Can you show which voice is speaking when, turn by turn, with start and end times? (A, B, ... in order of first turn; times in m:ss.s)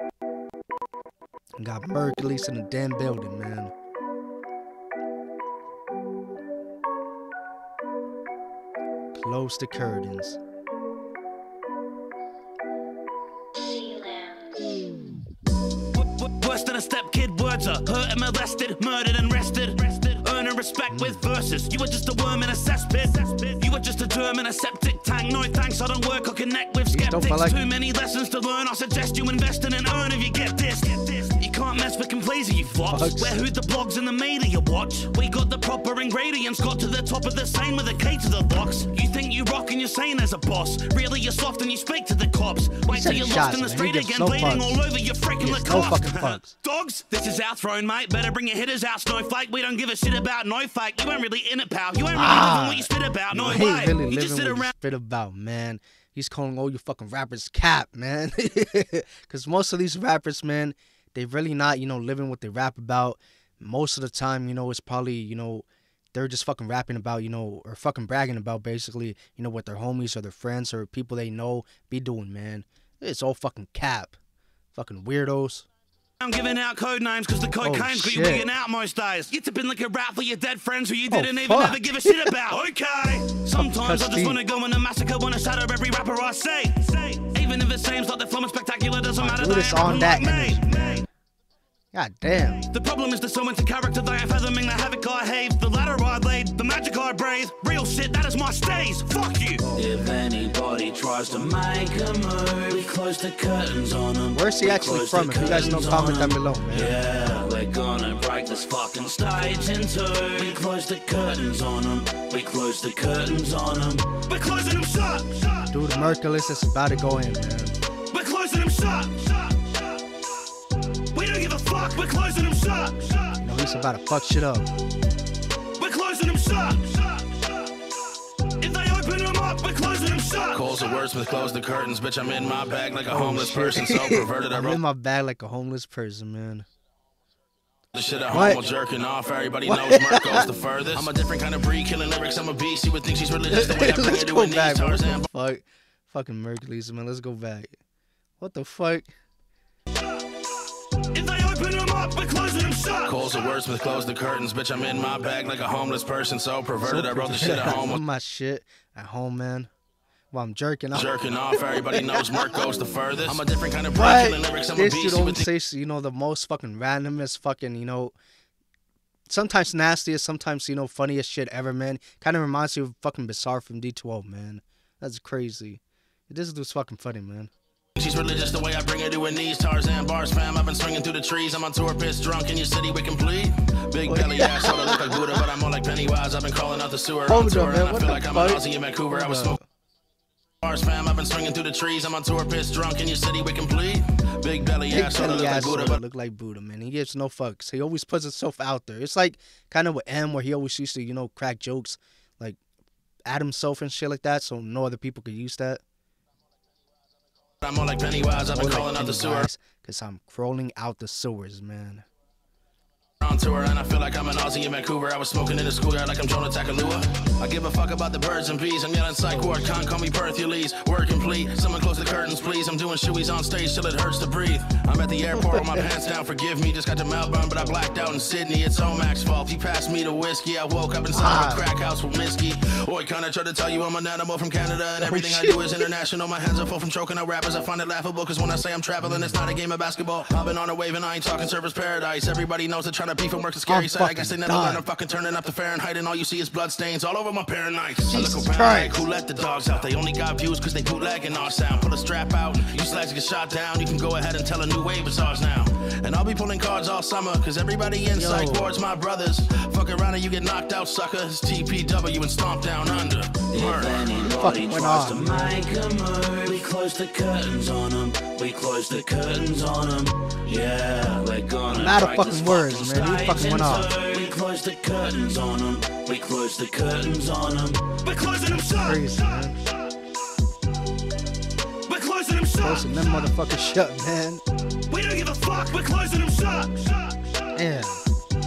0:01.6-0:03.7 A
0:09.1-0:10.4 A
0:14.0-0:14.3 B
0:15.9-0:54.7 B
0:20.9-0:21.2 A
0:26.9-0:27.6 A
0:32.9-0:33.4 A
0:42.9-0:44.8 A
0:45.4-0:46.5 A
0:52.1-1:14.2 A
1:14.7-1:15.7 A
1:16.2-1:31.0 B
1:17.6-1:18.5 A
1:21.1-1:22.3 A
1:23.5-1:24.4 A
1:29.2-1:31.1 A
1:31.9-1:32.7 A
1:32.7-1:55.7 B
1:39.6-1:40.1 A
1:44.3-1:47.0 A
1:55.7-1:57.8 A
1:58.1-1:59.7 B
2:01.1-2:03.4 B
2:03.4-2:04.7 A
2:05.8-2:07.3 B
2:08.6-2:10.7 B
2:10.5-2:14.8 C
2:13.1-2:16.6 A
2:17.9-2:25.3 C
2:18.3-2:18.6 A
2:19.6-2:20.5 A
2:23.5-2:27.8 A
2:28.4-2:29.1 A
2:31.1-2:33.3 B
2:33.0-2:38.0 C
2:36.8-2:39.7 A
2:40.3-2:41.1 A
2:40.9-2:45.5 C
2:41.9-2:42.2 A
2:43.9-2:48.1 A
2:49.3-2:57.5 A
2:58.0-3:09.6 C
3:04.1-3:05.5 A
3:07.3-3:09.6 A
3:10.6-3:16.0 C
3:14.9-3:22.6 A
3:23.2-3:25.8 A
3:27.6-3:29.5 C
3:28.2-3:32.0 A
3:33.2-4:24.3 C
3:39.3-3:39.6 A
3:45.3-3:45.9 A
3:51.1-3:51.7 A
3:55.0-3:55.8 A
3:59.0-3:59.3 A
4:03.7-4:04.8 A
4:08.0-4:09.0 A
4:18.1-4:18.7 A
4:23.5-4:39.2 B
4:24.4-4:25.6 A
4:31.7-4:33.9 A
4:38.5-4:39.6 A
4:41.8-4:42.9 B
4:42.6-4:44.4 A
4:44.8-4:47.2 B
4:47.5-4:48.0 A